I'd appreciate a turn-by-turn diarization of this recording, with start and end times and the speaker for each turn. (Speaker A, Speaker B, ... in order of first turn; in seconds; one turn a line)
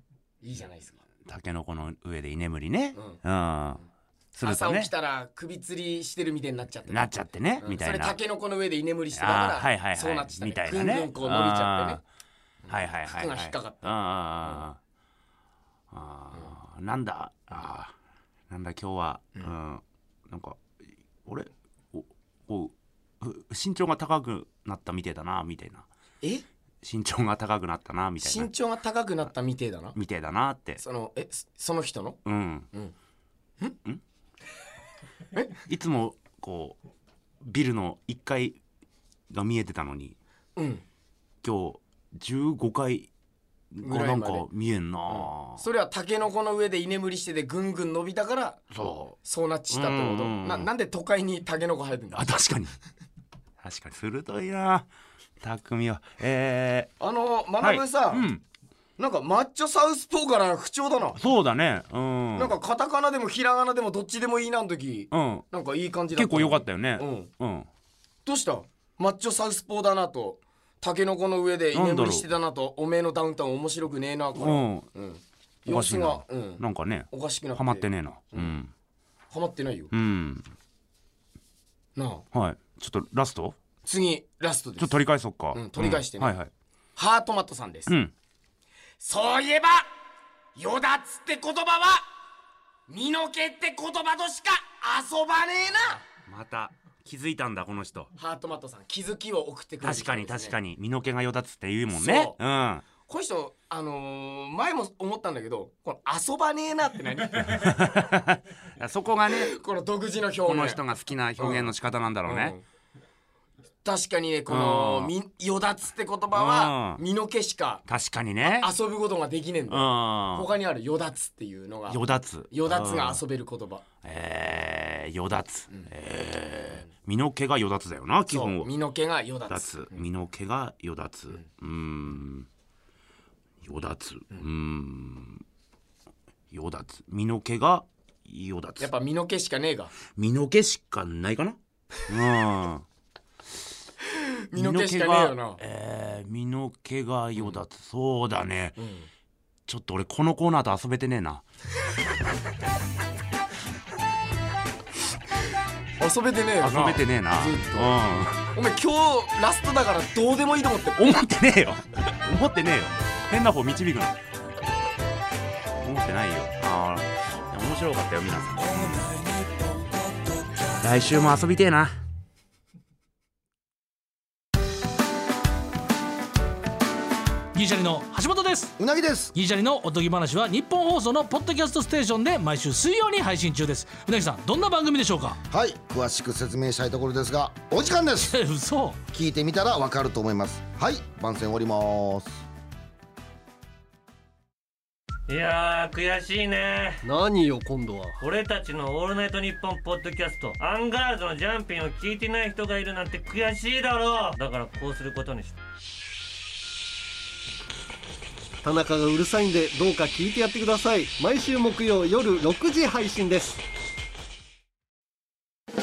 Speaker A: 0.4-1.0
Speaker B: 1.3-3.8
Speaker A: 3.0-3.2
Speaker B: 4.3-4.9
Speaker A: 4.4-12.0
Speaker B: 6.9-8.2
Speaker B: 9.2-12.0
Speaker A: 12.7-14.6
Speaker B: 12.7-14.8
Speaker B: 15.9-17.9
Speaker B: 18.5-20.6
Speaker B: 21.3-25.9
Speaker B: 26.8-28.5
Speaker A: 28.2-29.9
Speaker B: 29.9-30.8
Speaker A: 30.8-32.2
Speaker B: 32.2-32.7
Speaker B: 35.7-36.8
Speaker B: 37.4-38.6
Speaker B: 39.3-40.2
Speaker A: 40.6-40.8
Speaker B: 41.4-43.1
Speaker B: 43.7-45.6
Speaker A: 43.8-44.5
Speaker A: 45.1-48.6
Speaker B: 48.7-49.2
Speaker A: 49.2-52.3
Speaker B: 49.7-50.7
Speaker B: 52.1-52.8
Speaker B: 53.6-54.9
Speaker B: 55.4-56.9
Speaker A: 57.0-58.3
Speaker B: 57.6-58.4
Speaker A: 59.0-61.2
Speaker B: 61.2-62.5
Speaker A: 62.4-67.3
Speaker B: 65.1-65.5
Speaker B: 66.2-67.7
Speaker A: 68.3-78.5
Speaker B: 71.7-72.3
Speaker B: 74.4-74.9
Speaker B: 75.7-78.7
Speaker A: 79.3-79.9
Speaker B: 79.9-80.5
Speaker A: 82.0-82.2
Speaker B: 82.3-83.6
Speaker A: 83.9-85.0
Speaker B: 84.8-86.5
Speaker A: 85.5-86.3
Speaker A: 87.0-87.9
Speaker A: 89.0-89.9
Speaker A: 90.6-92.0
Speaker A: 92.9-96.0
Speaker B: 96.2-98.1
Speaker A: 98.2-100.6
Speaker B: 99.8-102.8
Speaker A: 101.9-102.4
Speaker A: 103.0-108.0
Speaker B: 107.5-109.5
Speaker A: 109.4-110.8
Speaker B: 110.5-112.6
Speaker A: 111.4-111.7
Speaker A: 112.2-112.6
Speaker A: 113.8-117.8
Speaker B: 114.5-115.1
Speaker B: 116.3-117.0
Speaker B: 117.9-118.7
Speaker A: 118.5-122.0
Speaker B: 119.7-120.5
Speaker B: 121.9-123.2
Speaker A: 122.5-123.8
Speaker B: 124.0-128.7
Speaker A: 128.3-130.0
Speaker B: 129.5-132.5
Speaker B: 133.6-135.4
Speaker B: 136.5-138.9
Speaker A: 138.8-139.9
Speaker B: 140.2-142.8
Speaker A: 144.5-145.6
Speaker B: 144.5-148.8
Speaker A: 148.8-149.1
Speaker B: 149.7-151.4
Speaker A: 156.0-161.1
Speaker B: 156.6-158.5
Speaker B: 161.0-164.2
Speaker B: 165.8-169.0
Speaker B: 170.8-171.9
Speaker C: 177.5-178.7
Speaker D: 178.8-179.3
Speaker C: 179.3-185.4
Speaker D: 185.5-188.3
Speaker C: 188.3-189.0
Speaker D: 189.1-192.4
Speaker E: 195.3-197.0
Speaker F: 197.0-198.2
Speaker E: 198.2-205.6
Speaker F: 208.6-213.6